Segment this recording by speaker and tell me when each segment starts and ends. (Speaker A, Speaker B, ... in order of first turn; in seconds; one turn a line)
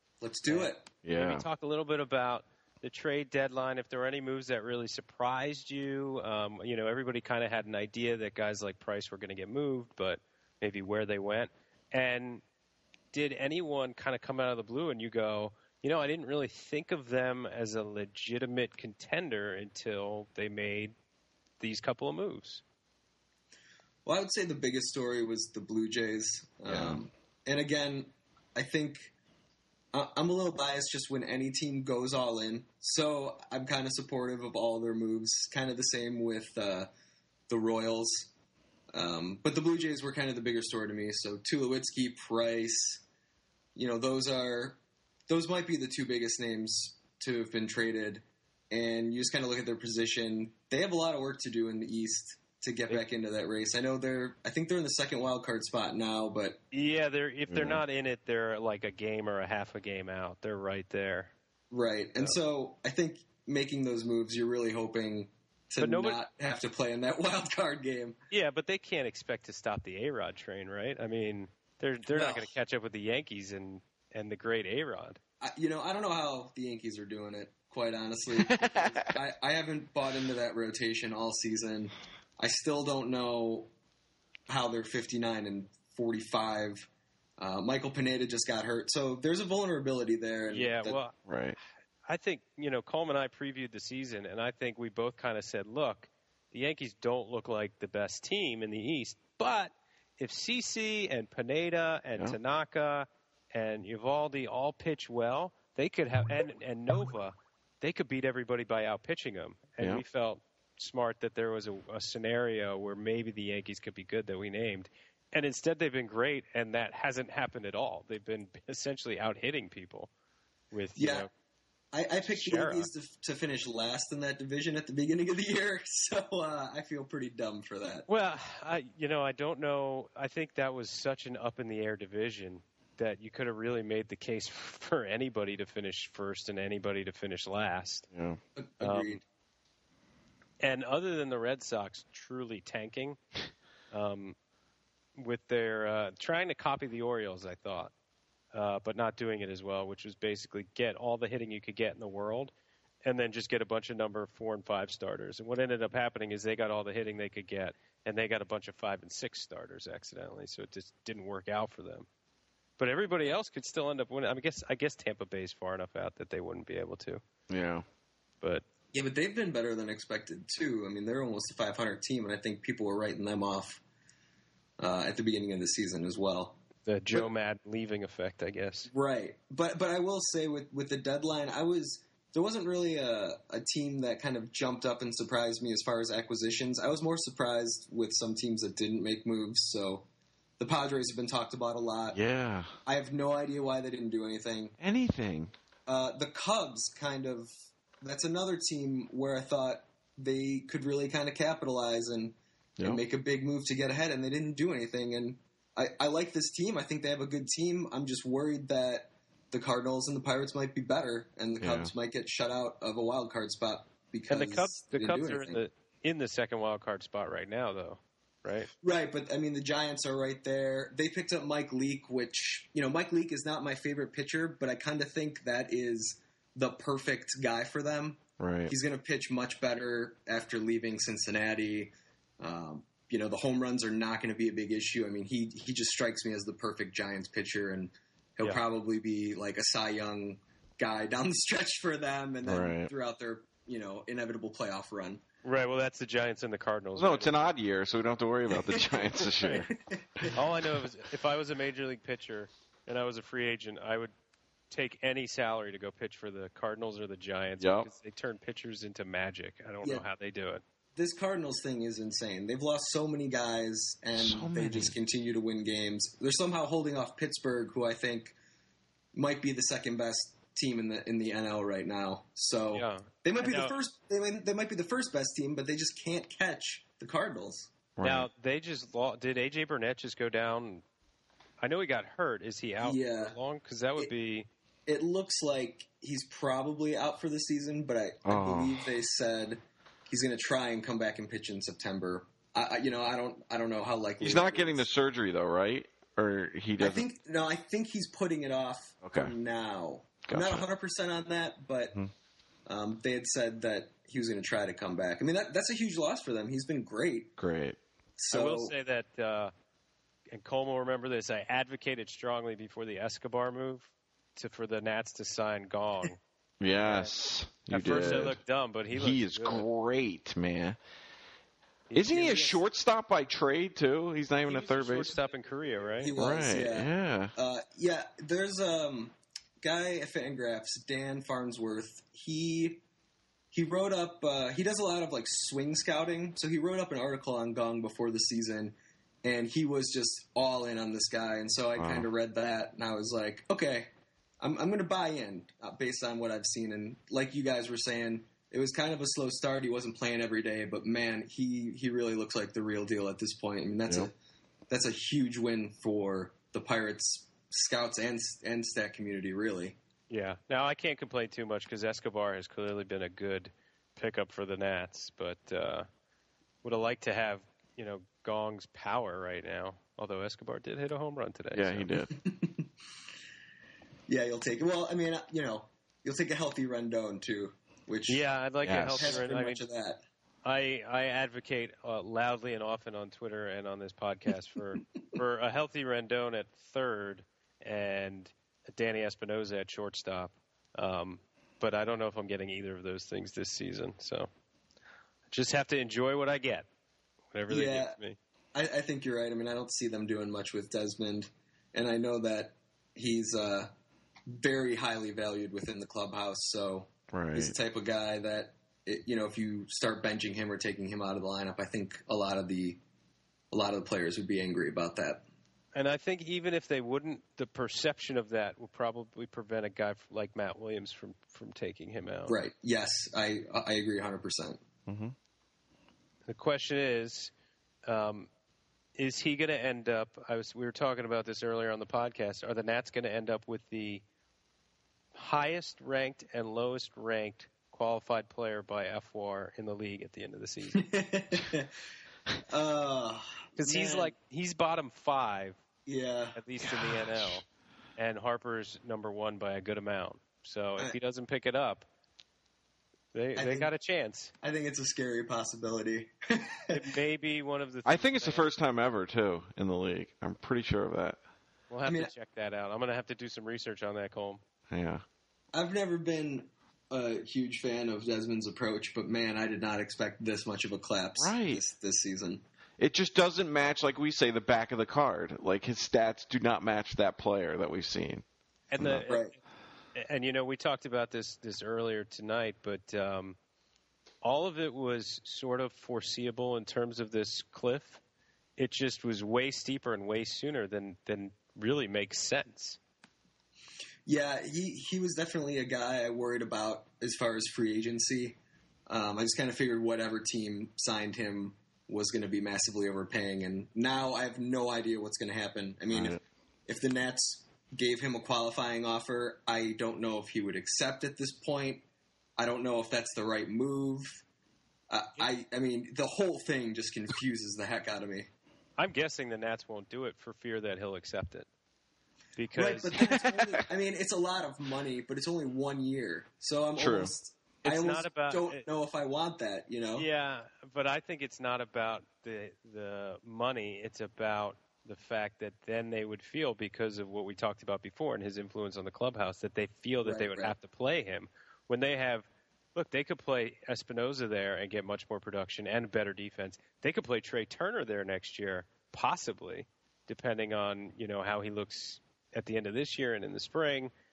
Speaker A: 0.2-0.9
Speaker B: 0.5-12.4
Speaker C: 1.0-1.4
Speaker B: 13.1-20.9
Speaker B: 21.6-22.6
Speaker A: 24.1-29.1
Speaker C: 26.7-27.0
Speaker A: 29.9-36.9
Speaker A: 37.5-38.3
Speaker A: 38.9-43.0
Speaker A: 43.8-56.6
Speaker B: 56.7-61.3
Speaker C: 57.5-57.8
Speaker A: 61.7-68.2
Speaker B: 65.8-66.2
Speaker B: 68.3-75.2
Speaker A: 72.1-72.5
Speaker A: 75.4-83.7
Speaker C: 78.3-79.1
Speaker A: 84.5-86.9
Speaker A: 87.4-91.0
Speaker B: 90.5-91.2
Speaker C: 91.2-91.6
Speaker B: 92.1-120.1
Speaker C: 109.8-110.0
Speaker B: 120.7-121.3
Speaker A: 121.0-121.3
Speaker A: 121.9-128.1
Speaker B: 122.2-122.9
Speaker B: 128.1-138.1
Speaker C: 138.1-138.4
Speaker A: 138.6-139.2
Speaker B: 138.8-139.2
Speaker B: 140.6-143.2
Speaker B: 143.9-144.4
Speaker B: 145.2-147.9
Speaker B: 148.5-152.5
Speaker B: 153.0-162.1
Speaker B: 162.8-167.2
Speaker C: 167.5-167.8
Speaker A: 168.9-173.8
Speaker A: 174.8-176.6
Speaker B: 176.8-178.9
Speaker A: 178.9-190.1
Speaker A: 190.6-192.2
Speaker C: 192.1-192.7
Speaker A: 192.9-194.7
Speaker C: 194.8-195.5
Speaker A: 195.9-215.6
Speaker C: 211.6-211.9
Speaker B: 214.3-218.7
Speaker A: 218.8-245.2
Speaker C: 228.4-228.7
Speaker C: 242.4-242.9
Speaker B: 245.4-247.4
Speaker C: 246.9-250.3
Speaker A: 248.5-250.3
Speaker B: 250.3-254.1
Speaker B: 254.7-260.6
Speaker C: 257.6-257.9
Speaker A: 260.9-268.4
Speaker C: 264.1-264.9
Speaker A: 269.1-277.8
Speaker B: 272.7-273.7
Speaker C: 278.0-278.3
Speaker B: 278.0-280.8
Speaker B: 281.6-284.5
Speaker A: 282.8-283.4
Speaker A: 284.9-294.9
Speaker C: 288.2-288.8
Speaker C: 294.2-297.1
Speaker A: 296.8-301.9
Speaker C: 299.0-299.3
Speaker C: 300.3-300.7
Speaker A: 302.7-307.3
Speaker C: 307.4-307.8
Speaker A: 308.2-308.7
Speaker B: 308.3-309.5
Speaker B: 310.3-316.2
Speaker C: 316.6-318.4
Speaker B: 316.8-317.1
Speaker B: 317.7-319.7
Speaker C: 318.9-320.8
Speaker B: 321.9-322.6
Speaker C: 321.9-325.1
Speaker A: 322.1-322.6
Speaker B: 324.4-326.1
Speaker A: 326.0-332.8
Speaker C: 326.2-327.3
Speaker A: 333.5-354.1
Speaker C: 341.8-342.1
Speaker A: 354.7-359.8
Speaker B: 360.1-365.9
Speaker B: 366.6-371.9
Speaker C: 371.5-372.1
Speaker A: 372.1-372.7
Speaker A: 374.1-380.0
Speaker B: 378.1-379.6
Speaker C: 378.6-379.1
Speaker B: 380.4-394.3
Speaker B: 395.3-396.7
Speaker B: 397.3-398.2
Speaker A: 397.5-397.9
Speaker A: 398.6-403.7
Speaker A: 404.3-412.8
Speaker C: 407.1-407.6
Speaker A: 413.5-415.2
Speaker B: 415.7-422.4
Speaker A: 422.3-424.6
Speaker C: 424.9-425.1
Speaker B: 426.3-427.3
Speaker B: 427.9-428.3
Speaker B: 428.9-434.0
Speaker B: 435.1-440.8
Speaker A: 440.7-441.7
Speaker A: 442.5-444.1
Speaker B: 443.6-445.6
Speaker A: 445.9-446.4
Speaker B: 446.4-447.4
Speaker C: 446.6-447.4
Speaker B: 447.9-451.9
Speaker B: 453.1-454.3
Speaker A: 453.4-453.7
Speaker A: 454.4-456.9
Speaker B: 456.7-458.5
Speaker C: 457.9-461.2
Speaker B: 461.7-464.4
Speaker C: 464.7-465.0
Speaker A: 465.5-472.4
Speaker C: 471.2-471.6
Speaker C: 472.8-478.2
Speaker B: 478.7-479.4
Speaker A: 479.1-479.3
Speaker B: 479.9-483.4
Speaker B: 484.2-488.0
Speaker B: 488.6-492.8
Speaker A: 494.1-511.8
Speaker C: 505.9-506.2
Speaker A: 512.4-514.2
Speaker A: 514.9-518.3
Speaker B: 518.8-521.5
Speaker B: 522.4-522.9
Speaker A: 522.5-530.1
Speaker C: 523.0-523.6
Speaker C: 526.8-527.1
Speaker B: 527.6-528.6
Speaker B: 530.0-553.9
Speaker A: 540.0-540.5